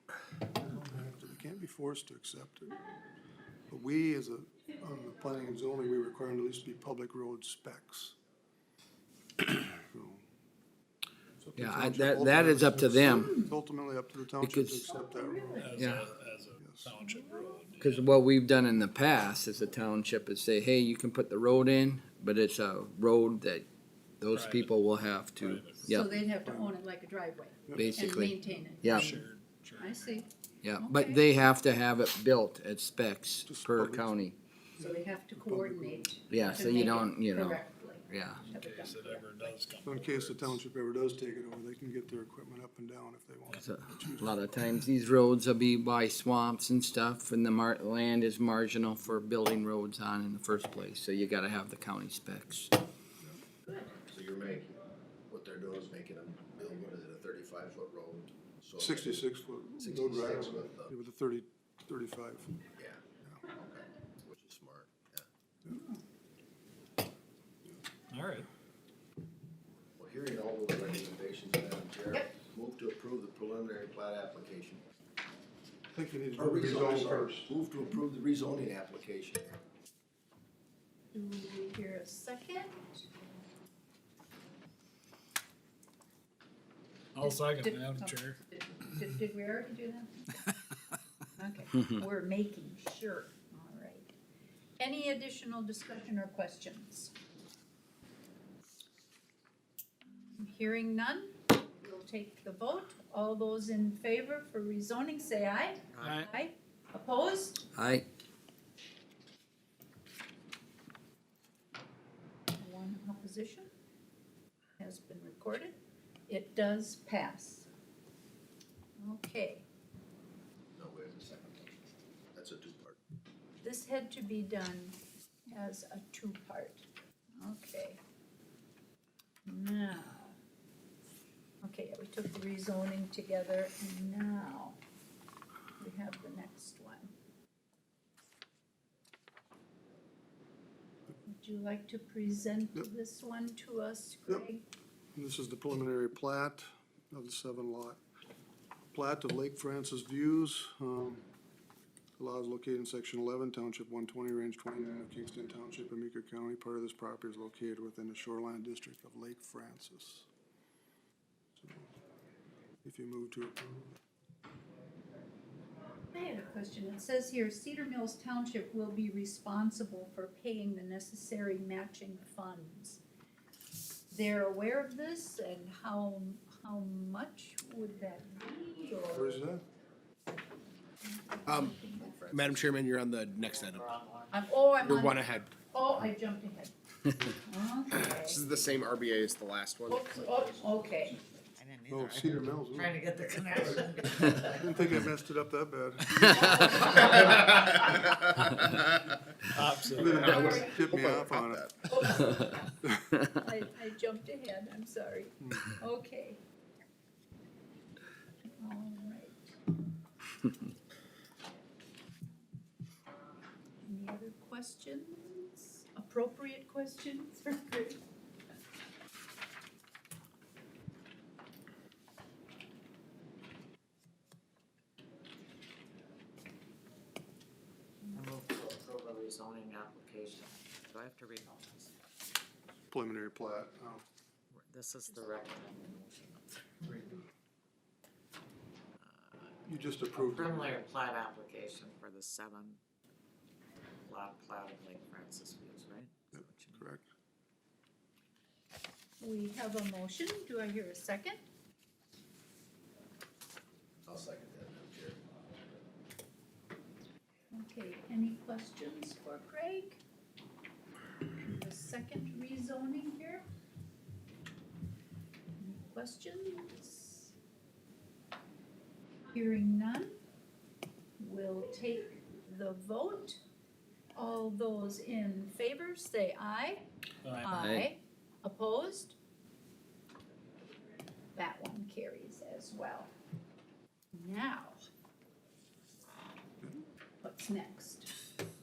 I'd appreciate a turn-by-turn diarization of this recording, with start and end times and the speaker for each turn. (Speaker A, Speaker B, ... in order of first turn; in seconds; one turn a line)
Speaker A: 0.5-2.8
Speaker A: 3.7-8.2
Speaker A: 9.4-10.2
Speaker A: 11.4-15.9
Speaker B: 11.6-13.4
Speaker C: 13.1-13.5
Speaker B: 14.4-14.8
Speaker C: 14.9-15.8
Speaker D: 15.6-18.1
Speaker B: 15.8-16.1
Speaker A: 16.6-17.0
Speaker C: 17.0-17.6
Speaker B: 17.8-23.7
Speaker B: 24.2-26.1
Speaker D: 24.3-24.7
Speaker D: 25.4-25.9
Speaker C: 25.9-29.2
Speaker A: 26.4-26.7
Speaker A: 27.7-28.3
Speaker B: 27.7-29.2
Speaker D: 29.1-30.0
Speaker C: 29.8-31.2
Speaker B: 30.6-34.4
Speaker A: 33.5-34.3
Speaker A: 34.8-36.4
Speaker C: 34.8-39.6
Speaker B: 36.3-38.4
Speaker D: 38.6-40.5
Speaker A: 39.8-44.8
Speaker B: 43.6-52.7
Speaker C: 53.7-54.0
Speaker E: 54.1-59.2
Speaker A: 58.8-62.7
Speaker E: 59.8-60.9
Speaker E: 62.8-65.3
Speaker C: 65.7-66.0
Speaker D: 68.1-68.5
Speaker E: 70.0-74.8
Speaker A: 75.9-77.5
Speaker E: 76.3-79.5
Speaker C: 81.1-83.1
Speaker D: 87.2-88.4
Speaker C: 87.2-90.5
Speaker C: 91.4-94.1
Speaker C: 94.8-97.1
Speaker C: 100.1-107.7
Speaker B: 107.8-108.0
Speaker C: 112.6-113.7
Speaker C: 114.8-117.7
Speaker C: 119.0-119.7
Speaker E: 120.8-121.8
Speaker E: 122.3-123.0
Speaker C: 123.6-125.0
Speaker C: 125.5-126.8
Speaker C: 127.4-128.0
Speaker C: 129.5-130.4
Speaker C: 131.6-134.8
Speaker C: 135.8-137.1
Speaker C: 141.2-144.7
Speaker A: 145.2-148.0
Speaker A: 148.9-151.3
Speaker A: 152.2-160.3
Speaker A: 161.6-161.9
Speaker A: 162.8-163.9
Speaker C: 166.1-173.0
Speaker C: 174.1-179.4
Speaker A: 179.1-179.7
Speaker C: 181.0-182.2
Speaker F: 181.5-181.8
Speaker E: 181.9-182.6
Speaker F: 182.3-183.9
Speaker G: 183.5-184.4
Speaker C: 184.3-188.4
Speaker F: 184.8-185.5
Speaker F: 187.9-190.4
Speaker C: 189.9-191.2
Speaker G: 191.6-194.9
Speaker A: 191.9-193.0
Speaker A: 193.5-197.1
Speaker B: 196.2-196.7
Speaker C: 196.5-196.8
Speaker G: 197.0-197.3
Speaker E: 197.0-198.8
Speaker D: 199.6-200.1
Speaker A: 199.9-201.7
Speaker C: 200.0-201.1
Speaker F: 200.1-200.7
Speaker E: 200.8-201.7
Speaker C: 201.9-206.4
Speaker C: 208.4-209.6
Speaker C: 213.8-218.0
Speaker G: 228.1-231.9
Speaker A: 232.9-234.0
Speaker G: 234.5-237.2
Speaker G: 239.0-239.6
Speaker A: 239.7-240.8
Speaker G: 240.1-242.8
Speaker G: 244.1-246.8
Speaker A: 246.3-247.1
Speaker C: 249.2-251.4
Speaker E: 254.1-255.2
Speaker C: 257.5-260.0
Speaker C: 261.4-263.4
Speaker C: 265.6-267.4
Speaker C: 269.3-270.1
Speaker C: 271.2-273.4
Speaker C: 274.1-279.2
Speaker B: 277.5-277.9
Speaker C: 281.4-283.1
Speaker C: 284.1-284.9
Speaker C: 287.2-288.1